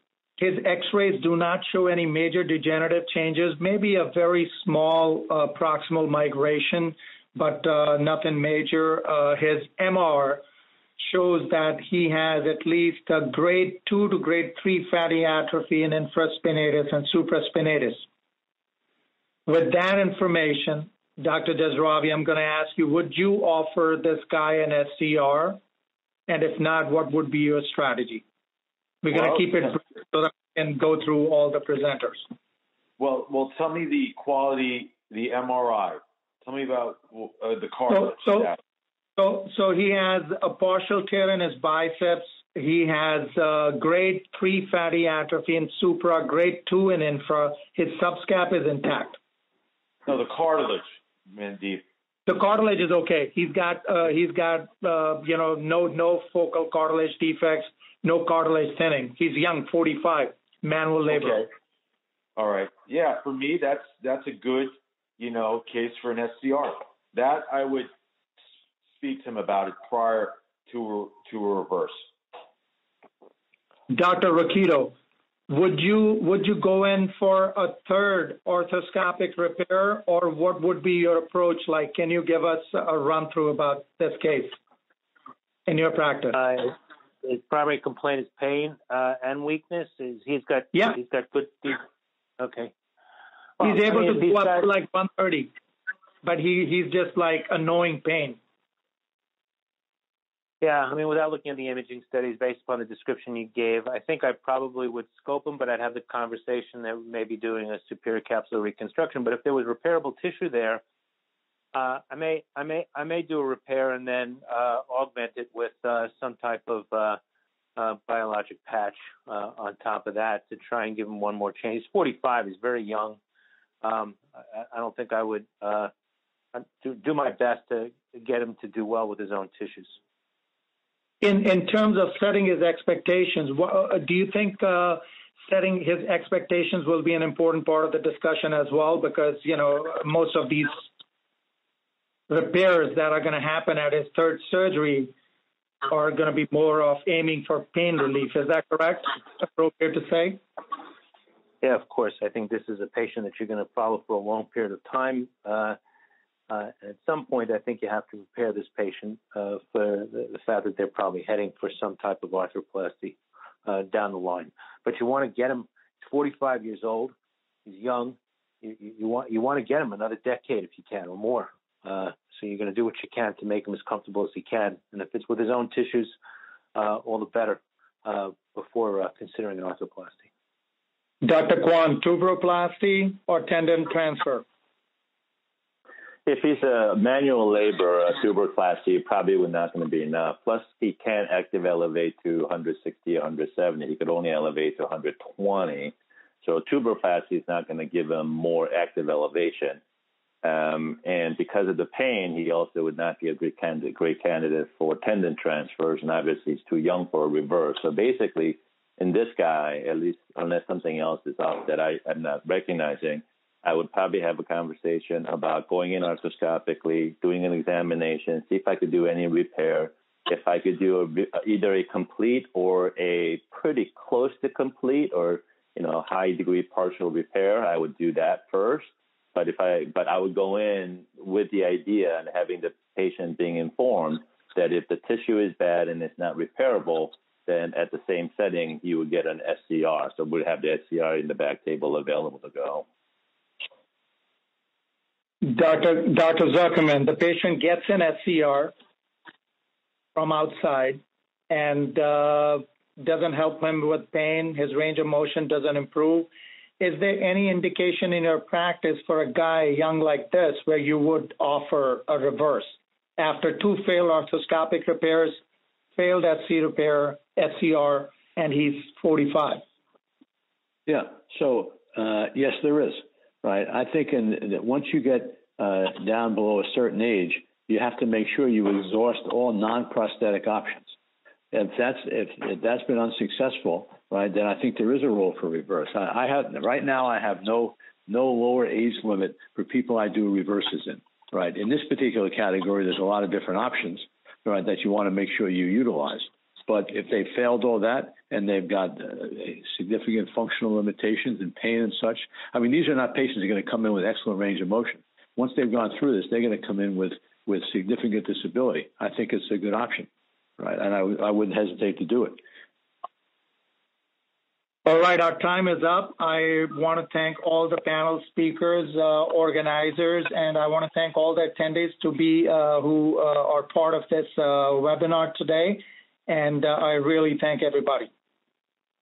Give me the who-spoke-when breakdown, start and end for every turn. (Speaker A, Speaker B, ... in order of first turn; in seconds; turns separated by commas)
Speaker A: 0.4-10.4, Speaker A: 11.0-18.0, Speaker A: 19.5-25.6, Speaker A: 26.3-28.2, Speaker A: 29.0-32.3, Speaker B: 29.1-29.4, Speaker B: 33.0-38.6, Speaker A: 37.9-38.5, Speaker A: 39.2-49.2, Speaker B: 50.0-51.8, Speaker A: 52.3-61.4, Speaker B: 61.1-61.5, Speaker B: 62.4-67.9, Speaker B: 69.0-72.0, Speaker A: 73.9-74.9, Speaker A: 75.5-84.6, Speaker A: 85.7-86.4, Speaker C: 86.3-91.8, Speaker C: 92.4-92.7, Speaker C: 93.6-94.7, Speaker A: 93.6-95.5, Speaker A: 96.2-98.4, Speaker C: 100.6-110.8, Speaker C: 111.7-117.2, Speaker C: 117.8-123.2, Speaker C: 123.8-125.9, Speaker C: 126.5-130.0, Speaker A: 131.2-140.9, Speaker A: 142.3-145.1, Speaker A: 145.9-150.4, Speaker C: 151.6-155.8, Speaker C: 156.5-167.1, Speaker C: 167.7-176.1, Speaker C: 176.7-180.3, Speaker A: 181.2-184.4, Speaker D: 186.2-199.8, Speaker D: 200.4-242.8, Speaker A: 245.4-248.7, Speaker A: 250.1-265.4, Speaker A: 265.9-269.6, Speaker E: 270.9-280.9, Speaker E: 281.5-312.4, Speaker A: 314.8-328.1